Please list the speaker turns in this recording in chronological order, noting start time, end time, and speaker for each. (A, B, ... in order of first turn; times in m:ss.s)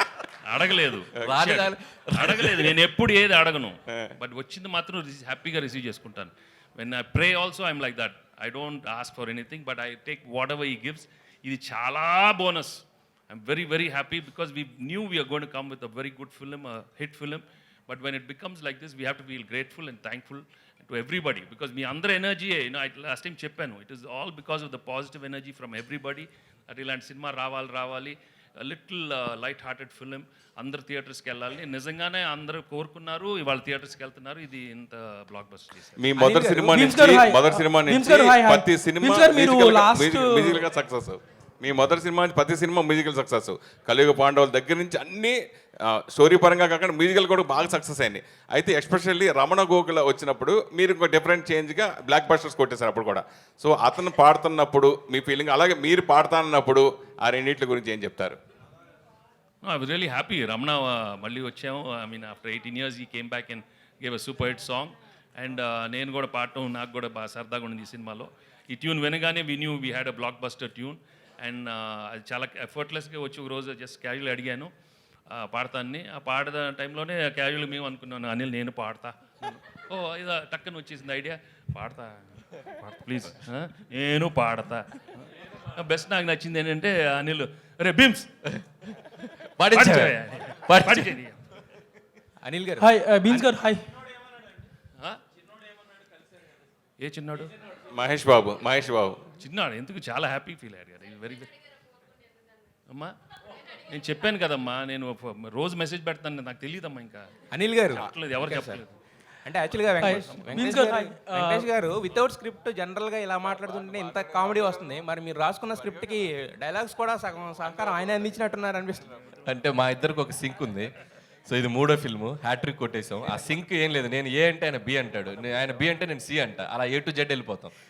0:00.4-0:36.0 A
0:01.2-0:02.7 B
0:36.0-0:58.4 C
0:36.2-0:40.6 D
0:59.6-1:14.7 A
1:15.3-1:28.6 A
1:29.4-1:30.2 B
1:29.7-1:31.6 A
1:30.7-1:31.1 B
1:32.4-1:33.5 E
1:32.8-1:34.0 D
1:37.0-1:37.5 A
1:37.9-1:39.2 C
1:39.4-1:41.5 A
1:43.9-1:47.3 A
1:47.5-1:48.8 E
1:47.8-1:48.9 A
1:49.4-1:59.3 E
1:50.0-1:51.7 D
1:50.2-1:50.6 A
1:59.4-2:00.9 B
2:01.5-2:07.8 B